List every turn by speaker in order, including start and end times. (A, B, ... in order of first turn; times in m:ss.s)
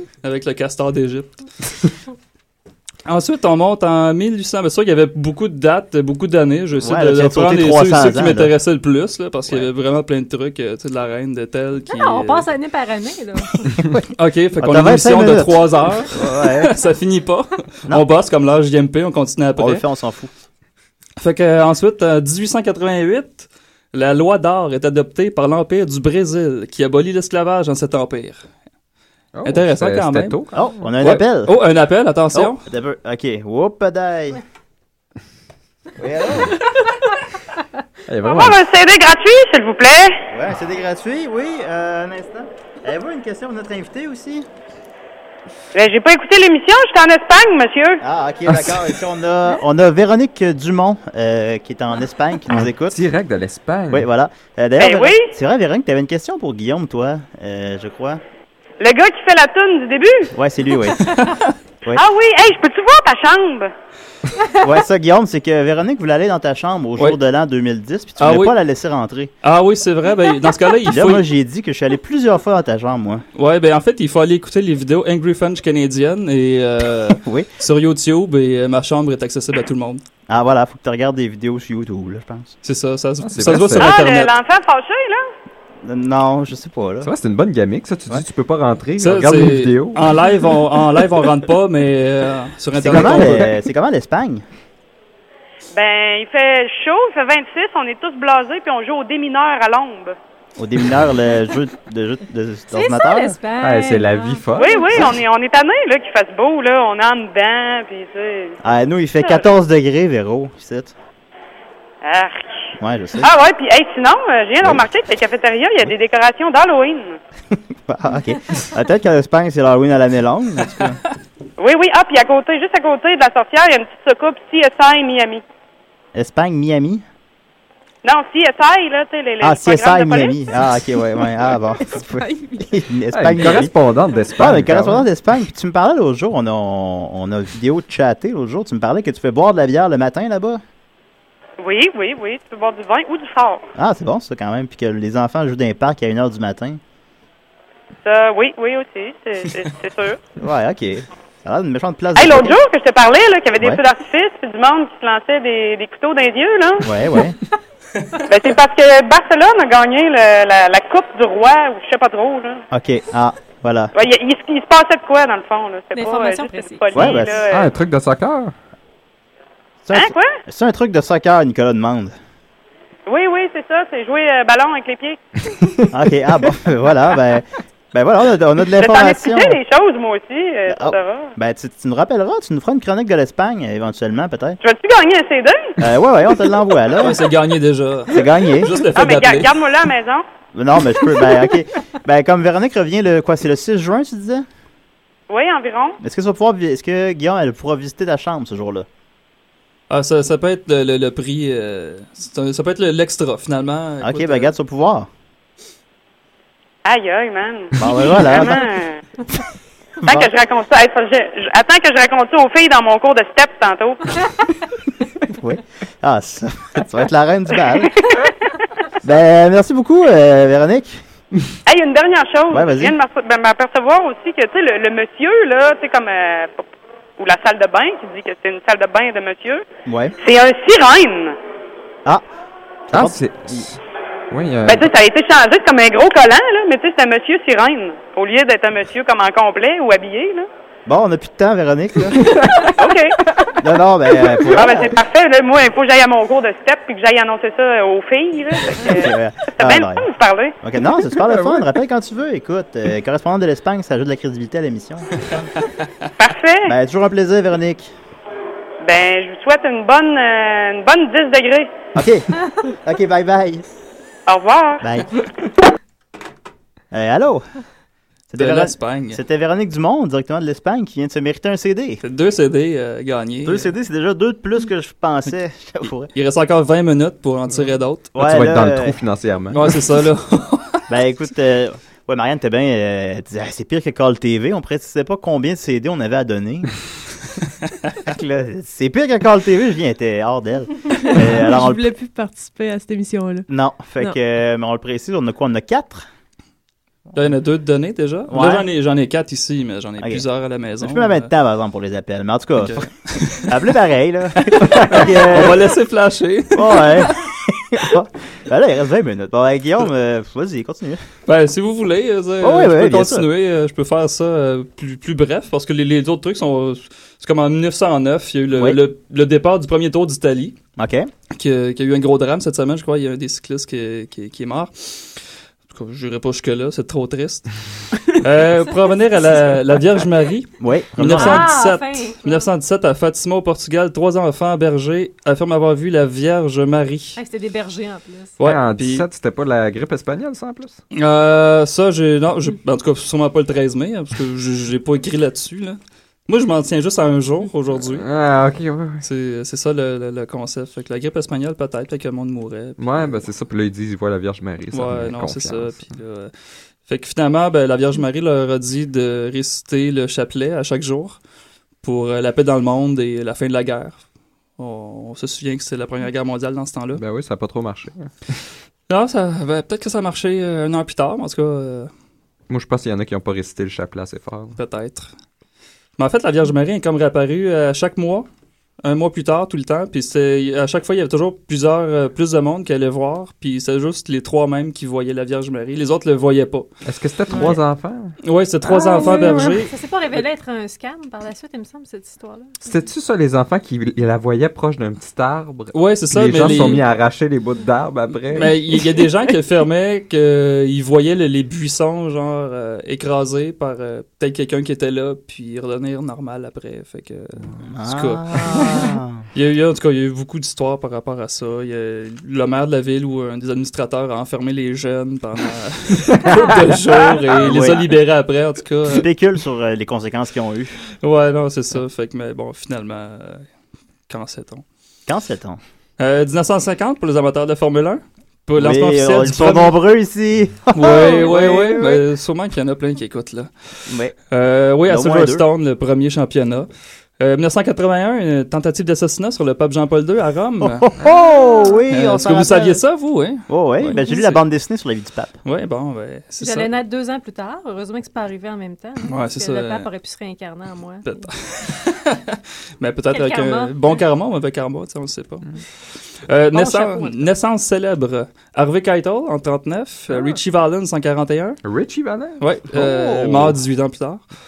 0:00.2-0:01.4 A
0:03.0-0:12.5 A
0:06.8-0:08.5 B
0:11.9-0:13.7 C
0:13.8-0:16.7 B
0:14.1-0:19.8 A
0:19.6-0:20.3 B
0:21.2-0:28.4 A
0:29.3-0:30.9 D
0:29.4-0:30.4 A
0:30.5-0:31.6 B
0:31.0-0:32.6 A
0:32.3-0:34.4 B
0:36.0-0:36.6 B
0:38.1-0:38.6 D
0:38.2-0:40.2 E
0:40.3-0:44.5 B
0:45.7-0:48.0 E
0:48.0-0:53.0 B
0:48.5-0:48.8 D
0:52.5-0:54.1 D
0:53.9-0:58.2 B
0:54.8-0:55.3 E
0:58.8-1:00.3 E
1:00.3-1:01.1 B
1:01.1-1:01.5 A
1:01.9-1:03.7 E
1:04.6-1:09.3 B
1:08.2-1:08.6 A
1:09.4-1:11.2 A
1:10.9-1:13.2 B
1:13.4-1:20.0 A
1:20.3-1:22.5 B
1:22.6-1:24.3 A
1:23.2-1:24.0 D
1:23.8-1:25.2 E
1:25.8-1:27.1 B
1:27.0-1:30.1 D
1:29.0-1:33.5 A
1:32.7-1:34.4 B
1:35.7-1:40.1 E
1:40.6-1:43.4 B
1:42.7-1:45.1 C
1:43.6-1:45.1 D
1:44.5-1:48.6 E
1:48.6-1:50.9 B
1:49.2-1:49.5 E
1:52.0-1:57.2 E
1:52.8-1:53.3 B
1:57.9-2:01.0 B
2:01.6-2:05.4 E
2:06.1-2:07.0 B
2:08.0-2:10.4 E
2:09.4-2:13.7 B
2:12.1-2:12.7 F
2:13.1-2:15.1 D
2:14.4-2:20.6 B
2:21.6-2:23.6 E
2:23.7-2:26.8 B
2:28.0-2:30.2 E
2:30.4-2:32.6 B
2:32.2-2:36.9 E
2:36.8-2:37.4 B
2:38.3-2:42.6 E
2:42.7-2:43.9 B
2:43.9-2:47.7 E
2:45.9-2:47.2 C
2:46.9-2:47.4 B
2:47.5-2:48.5 D
2:49.8-2:52.1 B
2:49.9-2:50.3 E
2:53.1-2:55.2 E
2:55.9-2:59.6 B
2:58.8-3:01.3 E
3:00.7-3:04.6 B
3:04.6-3:05.7 E
3:05.8-3:07.2 B
3:07.0-3:09.6 A
3:08.1-3:08.7 B
3:08.9-3:10.2 E
3:10.5-3:14.4 B
3:15.3-3:16.0 E
3:16.0-3:18.8 B
3:19.9-3:24.5 A
3:24.0-3:25.1 B
3:26.8-3:29.0 E
3:27.8-3:28.6 B
3:30.0-3:30.3 B
3:30.0-3:34.2 E
3:35.2-3:37.9 B
3:37.9-3:38.3 E
3:39.0-3:41.0 B
3:41.6-3:46.7 E
3:42.5-3:43.0 B
3:47.2-3:49.6 E
3:49.8-3:50.1 B
3:50.2-3:51.4 E
3:52.9-3:53.6 B
3:52.9-3:53.8 D
3:54.3-3:54.9 D
3:54.6-4:00.5 E
4:00.9-4:02.3 B
4:02.3-4:02.7 D
4:02.8-4:03.2 E
4:03.6-4:05.0 B
4:04.5-4:10.6 E
4:08.8-4:10.1 B
4:10.6-4:15.5 B
4:11.1-4:11.7 D
4:16.2-4:16.7 E
4:16.6-4:17.9 B
4:18.8-4:21.7 E
4:21.9-4:23.6 B
4:24.3-4:24.8 E
4:24.8-4:25.1 B
4:26.9-4:27.4 B
4:28.3-4:32.0 B
4:28.4-4:29.2 A
4:32.0-4:33.7 A
4:33.4-4:36.1 B
4:36.1-4:38.1 A
4:38.1-4:39.0 B
4:38.2-4:39.7 D
4:39.5-4:40.8 A
4:40.9-4:46.7 B
4:48.0-4:51.9 B
4:51.0-4:53.5 F
4:53.5-4:56.0 B
4:57.1-5:01.3 A
4:58.3-4:58.7 B
5:00.8-5:02.9 B
5:02.6-5:03.6 A
5:03.4-5:05.6 B
5:04.4-5:07.3 A
5:06.5-5:11.0 B
5:11.2-5:20.6 A
5:12.4-5:13.3 B
5:18.5-5:18.8 B
5:20.8-5:21.1 B
5:21.3-5:27.5 A
5:28.2-5:37.2 A
5:30.6-5:31.5 B
5:31.1-5:32.5 C
5:37.2-5:38.4 C
5:38.4-5:39.0 A
5:38.4-5:40.8 D
5:40.9-5:48.0 A
5:47.9-5:49.0 D
5:49.0-5:53.1 A
5:52.8-5:55.9 D
5:54.7-5:56.3 A
5:56.8-6:01.2 A
6:01.8-6:04.0 A
6:04.6-6:07.0 A
6:06.9-6:08.1 D
6:08.9-6:11.9 A
6:12.5-6:14.6 D
6:14.6-6:15.1 A
6:16.0-6:18.2 A
6:18.8-6:26.7 A
6:26.8-6:29.4 D
6:28.2-6:30.2 A
6:28.7-6:32.5 C
6:32.6-6:38.6 D
6:35.7-6:36.8 A
6:38.3-6:59.1 A
6:47.7-6:49.2 B
6:57.4-6:57.8 B
6:58.9-7:00.8 B
7:01.0-7:03.4 A
7:04.1-7:04.6 A
7:05.1-7:05.6 B
7:06.0-7:09.8 A
7:08.6-7:12.0 B
7:10.7-7:13.5 A
7:13.9-7:14.2 B
7:14.3-7:16.7 A
7:14.9-7:15.4 B
7:17.2-7:20.9 A
7:20.6-7:22.8 B
7:21.9-7:24.4 A
7:23.5-7:25.3 B
7:25.4-7:26.7 A
7:26.4-7:31.2 C
7:29.0-7:29.9 A
7:31.0-7:35.4 A
7:33.1-7:34.0 C
7:36.3-7:41.6 A
7:36.5-7:37.3 C
7:40.1-7:40.4 C
7:41.6-7:42.4 D
7:42.4-7:44.2 A
7:42.7-7:43.5 B